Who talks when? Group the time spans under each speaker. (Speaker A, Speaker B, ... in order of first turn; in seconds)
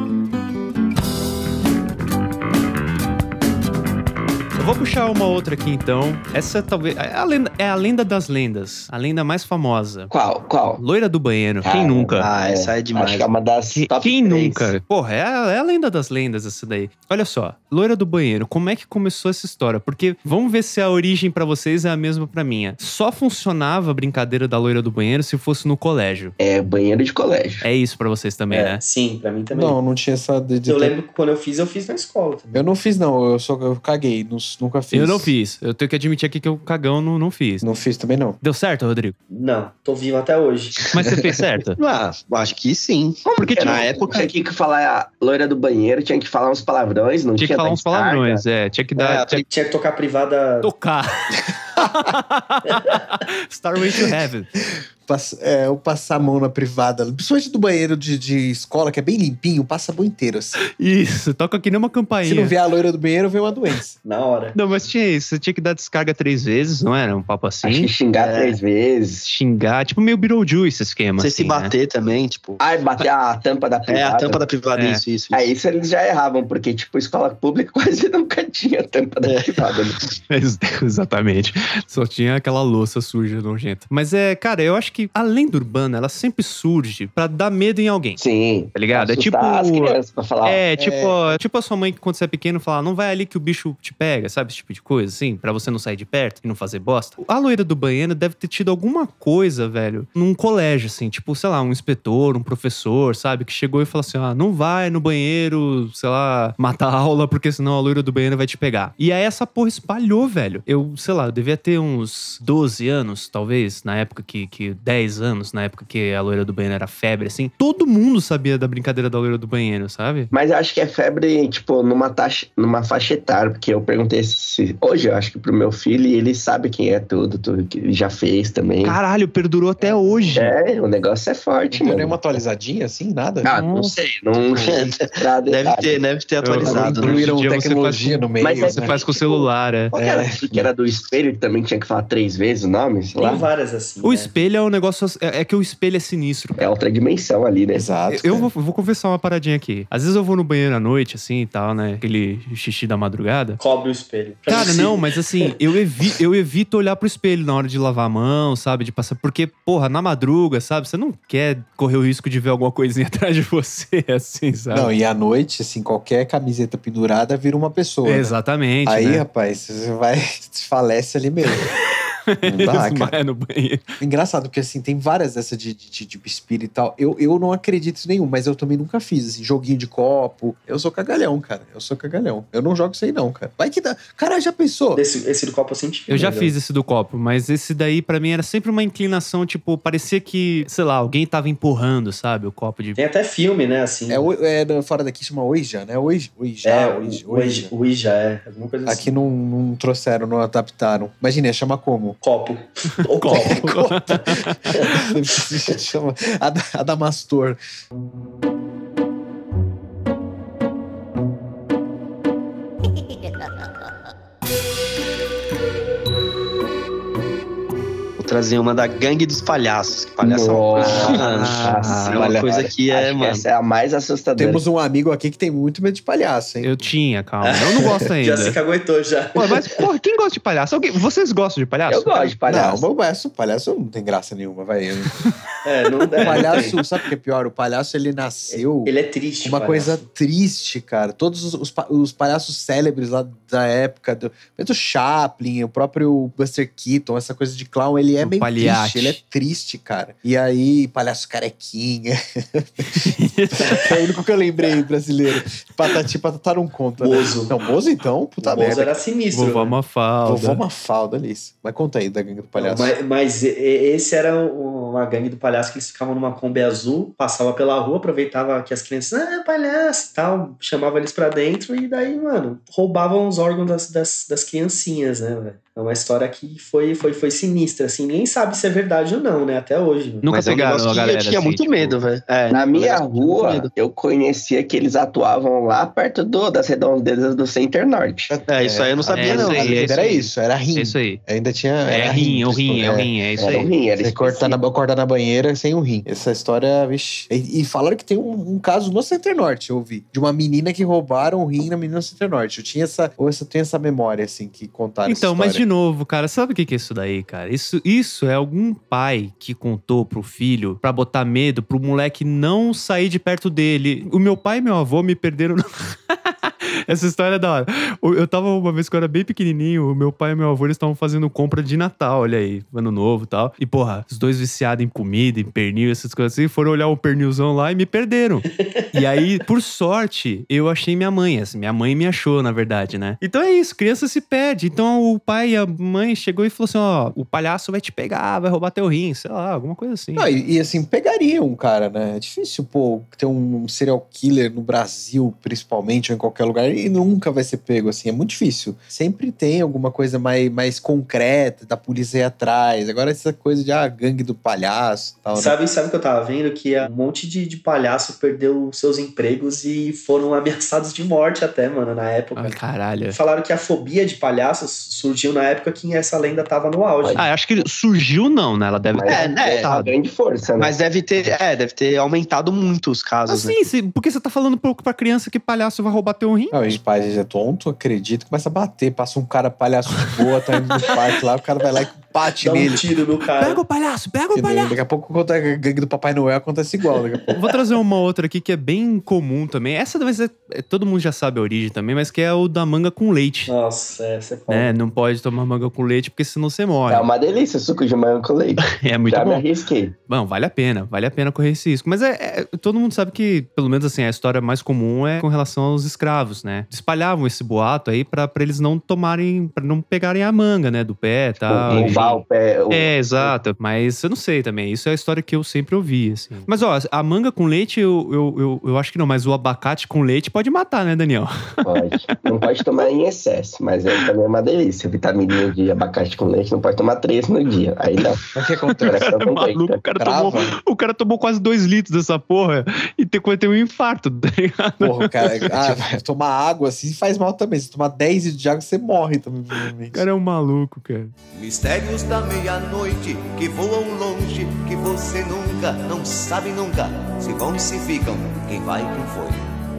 Speaker A: 4.5-10.1, 10.8-12.3, 13.7-26.3, 27.6-28.8, 34.9-37.6, 38.4-39.1, 40.9-41.8, 47.4-49.4, 50.6-54.5, 60.8-62.5, 64.5-67.9, 69.2-71.7, 74.7-75.0, 80.3-88.2, 88.7-120.3, 128.8-130.5, 133.5-133.9, 136.4-139.9, 144.0-146.6, 148.1-153.6, 154.5-164.9, 168.0-169.2, 171.7-173.9, 186.1-193.0, 203.2-205.1, 220.9-222.3, 226.6-228.6, 229.3-232.3, 235.1-235.3, 236.2-236.6, 248.2-249.2, 252.9-254.2, 259.3-260.6, 280.2-282.0, 289.1-290.0, 290.7-291.2, 291.9-293.7, 305.1-340.3, 362.4-363.2, 367.1-369.9, 373.3-376.7, 380.0-381.0, 383.4-384.7, 387.3-393.5, 394.5-397.1, 398.6-399.4, 400.1-421.8, 428.8-435.8, 439.9-441.1
Speaker B: 10.1-10.8, 11.6-14.7, 26.4-27.7, 43.2-48.4, 67.6-69.3, 72.6-74.5, 75.3-80.0, 88.2-90.6, 120.3-129.0, 130.3-132.2, 133.4-136.0, 136.6-137.2, 138.4-143.5, 146.6-147.9, 220.2-224.6, 231.9-232.8, 282.5-288.4, 293.4-294.6, 367.0-367.3, 368.9-370.8, 396.9-399.9, 411.4-413.4, 421.6-428.2, 428.8-429.8
Speaker C: 12.2-13.3, 41.8-44.3, 49.0-49.4, 68.1-68.6, 71.2-72.6, 73.9-75.5, 79.2-79.8, 134.5-137.3, 218.2-223.4, 280.3-283.7, 288.5-290.3, 369.1-369.7, 370.6-373.6
Speaker D: 28.5-29.8, 30.6-32.6, 39.3-40.7, 49.2-50.7, 52.7-53.0, 64.0-64.6, 143.2-144.4, 153.6-155.0, 184.9-186.5, 192.9-194.3, 196.6-199.1, 202.2-203.7, 227.4-229.7, 235.6-236.8, 238.5-240.1, 257.0-257.5, 258.4-259.8, 262.6-280.2, 328.6-328.9, 355.3-367.2, 382.4-383.6, 393.5-394.7
Speaker E: 29.5-30.9, 32.5-35.3, 37.6-38.4, 51.8-52.1, 55.1-60.6, 62.2-64.0, 90.8-91.4, 129.8-130.5, 131.7-133.6, 136.6-139.0, 139.9-140.7, 147.7-148.5, 164.7-168.3, 168.8-171.7, 172.4-173.2, 174.0-185.0, 194.1-197.7, 198.8-202.2, 203.3-207.6, 224.3-226.8, 232.5-235.3, 236.2-259.0, 260.2-262.9, 288.3-305.6, 340.1-355.6, 376.5-382.8, 384.3-387.5, 428.3-429.0, 430.0-430.5, 434.8-440.0
Speaker F: 441.3-449.5